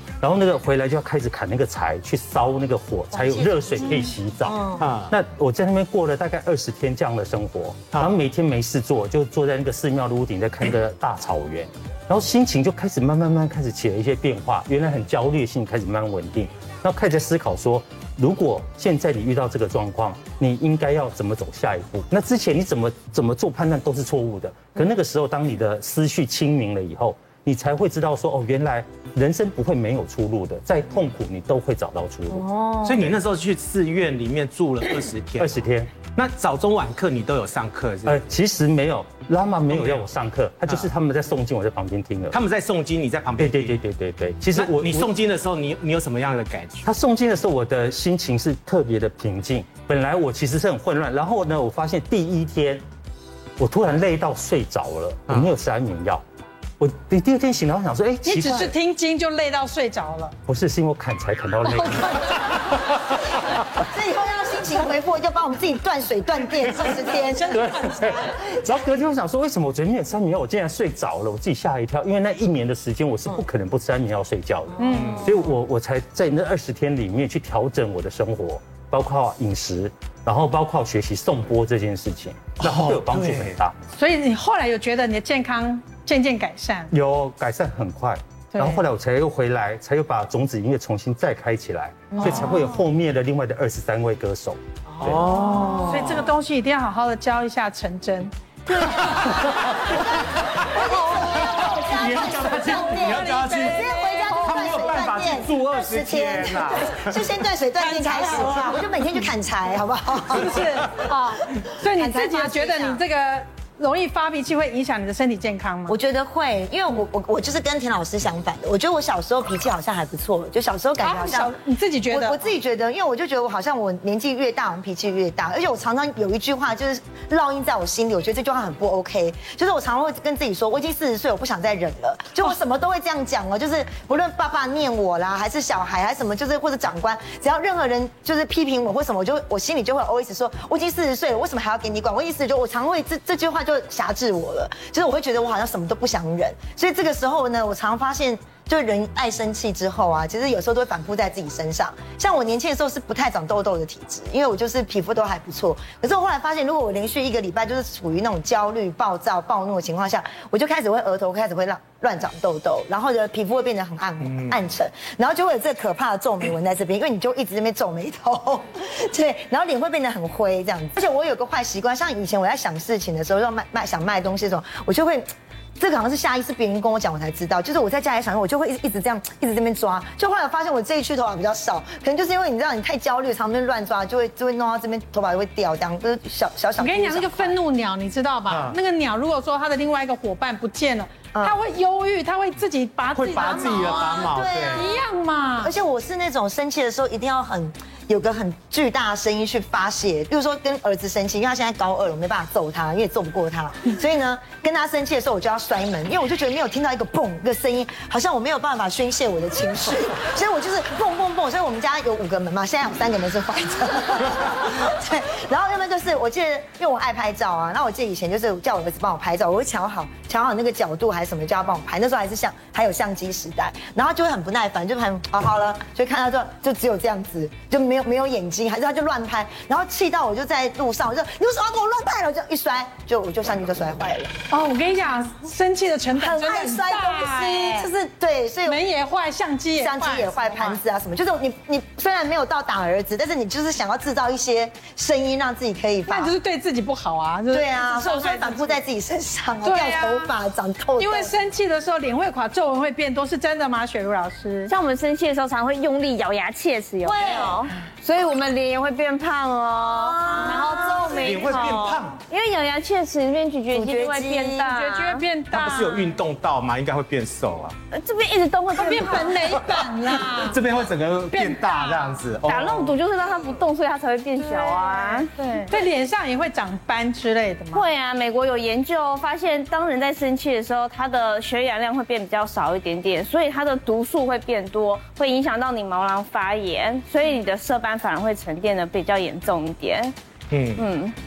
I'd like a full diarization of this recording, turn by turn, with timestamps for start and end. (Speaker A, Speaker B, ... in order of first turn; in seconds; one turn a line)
Speaker A: 0.2-32.5
Speaker B: 3.1-4.9
Speaker C: 4.8-5.1
Speaker B: 32.3-33.0
Speaker C: 32.8-38.2
Speaker A: 35.4-36.0
Speaker A: 38.0-42.4
Speaker C: 39.7-40.0
Speaker C: 42.3-43.8
Speaker A: 43.4-45.1
Speaker C: 44.5-46.8
Speaker A: 46.8-52.8
Speaker A: 53.6-56.2
Speaker A: 56.8-58.7
Speaker D: 58.2-60.4
Speaker A: 60.5-62.4
Speaker D: 61.7-62.5
Speaker B: 63.8-67.7
Speaker D: 67.0-68.3
Speaker A: 67.5-83.8
Speaker B: 68.3-68.7
Speaker D: 74.8-75.2
Speaker C: 82.6-83.5
Speaker D: 83.9-86.9
Speaker A: 86.9-95.2
Speaker D: 88.5-88.8
Speaker B: 92.1-92.4
Speaker B: 95.0-96.1
Speaker C: 95.0-96.2
Speaker D: 95.7-99.5
Speaker C: 98.8-100.8
Speaker B: 98.9-99.2
Speaker B: 100.7-110.8
Speaker D: 100.7-105.0
Speaker C: 101.6-103.9
Speaker C: 104.4-107.3
Speaker D: 107.8-108.8
Speaker D: 110.3-116.0
Speaker B: 111.9-113.0
Speaker B: 115.9-121.5
Speaker D: 121.0-122.4
Speaker B: 122.1-187.6
Speaker C: 164.2-164.6
Speaker D: 186.8-195.7
Speaker C: 188.5-188.8
Speaker C: 193.1-194.9
Speaker B: 193.3-195.0
Speaker B: 195.6-234.3
Speaker D: 234.5-237.9
Speaker B: 236.1-238.8
Speaker D: 238.6-240.8
Speaker B: 239.8-246.3
Speaker D: 246.1-248.8
Speaker B: 247.5-251.3
Speaker D: 249.6-250.3
Speaker D: 251.0-254.7
Speaker E: 254.7-265.2
Speaker B: 257.0-257.7
Speaker B: 259.9-261.5
Speaker C: 261.1-262.2
Speaker B: 263.7-264.6
Speaker D: 264.6-266.2
Speaker C: 265.5-267.8
Speaker E: 267.9-269.7
Speaker D: 268.7-270.6
Speaker C: 270.1-272.9
Speaker D: 271.3-272.2
Speaker E: 272.5-275.3
Speaker D: 274.4-277.8
Speaker E: 277.7-290.1
Speaker C: 290.5-290.8
Speaker E: 290.8-291.1